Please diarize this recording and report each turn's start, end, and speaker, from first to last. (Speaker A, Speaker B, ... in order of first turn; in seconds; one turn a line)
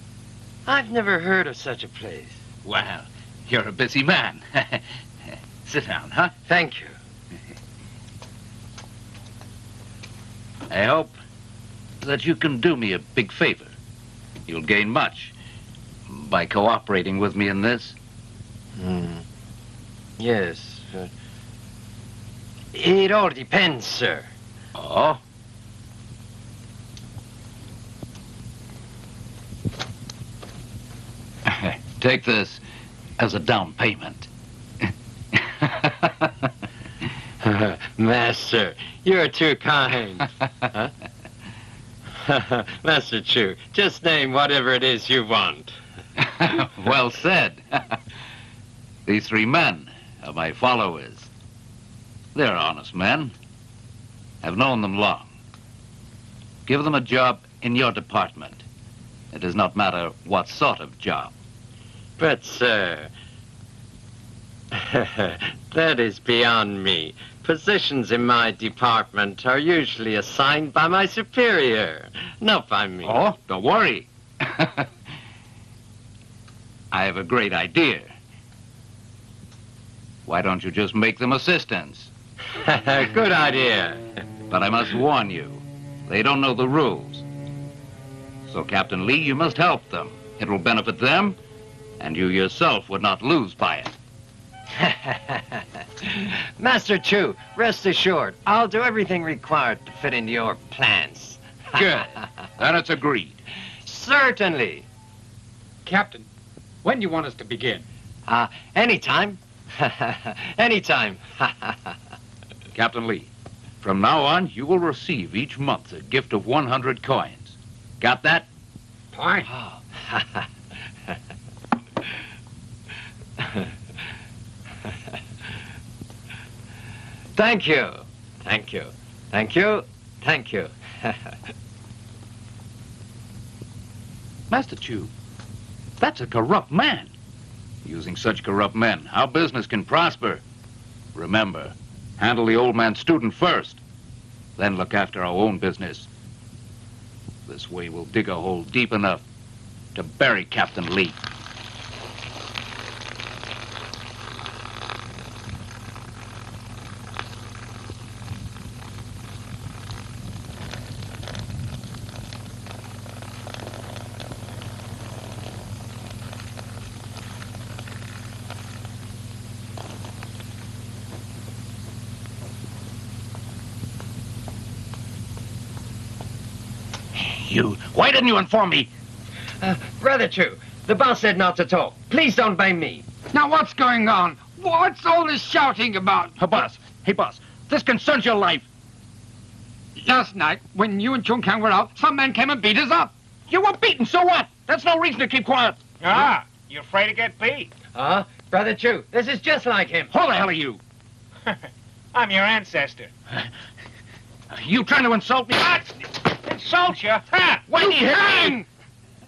Speaker A: 0.7-2.4
Speaker B: 2.6-5.0
Speaker B: 5.6-6.3
Speaker A: 6.5-7.0
Speaker B: 10.7-11.2
Speaker B: 12.0-13.7
Speaker B: 14.5-15.3
Speaker B: 16.1-18.0
Speaker A: 18.8-19.2
Speaker A: 20.2-21.1
Speaker A: 22.7-24.3
Speaker B: 24.8-25.2
Speaker B: 31.5-32.6
Speaker B: 33.2-34.3
Speaker B: 35.4-36.1
Speaker A: 37.4-40.9
Speaker A: 42.2-45.7
Speaker B: 46.2-47.6
Speaker B: 49.1-51.3
Speaker B: 52.3-53.3
Speaker B: 54.4-55.3
Speaker B: 56.7-58.6
Speaker B: 59.3-61.3
Speaker A: 62.2-63.1
Speaker A: 64.7-73.2
Speaker B: 73.0-74.9
Speaker B: 76.9-78.1
Speaker B: 80.3-82.1
Speaker A: 82.6-84.0
Speaker B: 84.5-87.2
Speaker B: 88.5-91.4
Speaker B: 92.0-93.9
Speaker A: 94.8-102.0
Speaker B: 101.7-103.4
Speaker A: 103.9-104.9
Speaker C: 105.9-106.3
Speaker C: 106.8-107.8
Speaker A: 108.3-112.0
Speaker B: 112.8-113.3
Speaker B: 113.8-118.5
Speaker C: 119.1-119.5
Speaker A: 119.6-120.5
Speaker A: 127.4-131.3
Speaker B: 134.5-135.1
Speaker B: 136.0-137.1
Speaker B: 137.8-140.4
Speaker B: 141.2-143.8
Speaker B: 144.6-146.1
Speaker B: 147.5-149.2
Speaker B: 149.9-151.2
Speaker B: 177.2-178.9
Speaker A: 179.6-183.1
Speaker C: 183.3-186.3
Speaker B: 186.4-188.7
Speaker C: 190.0-193.1
Speaker B: 193.5-195.8
Speaker D: 196.0-197.7
Speaker A: 197.9-200.1
Speaker B: 200.1-200.8
Speaker D: 202.1-203.1
Speaker B: 204.5-205.9
Speaker D: 206.4-207.7
Speaker B: 207.7-208.6
Speaker C: 207.8-208.7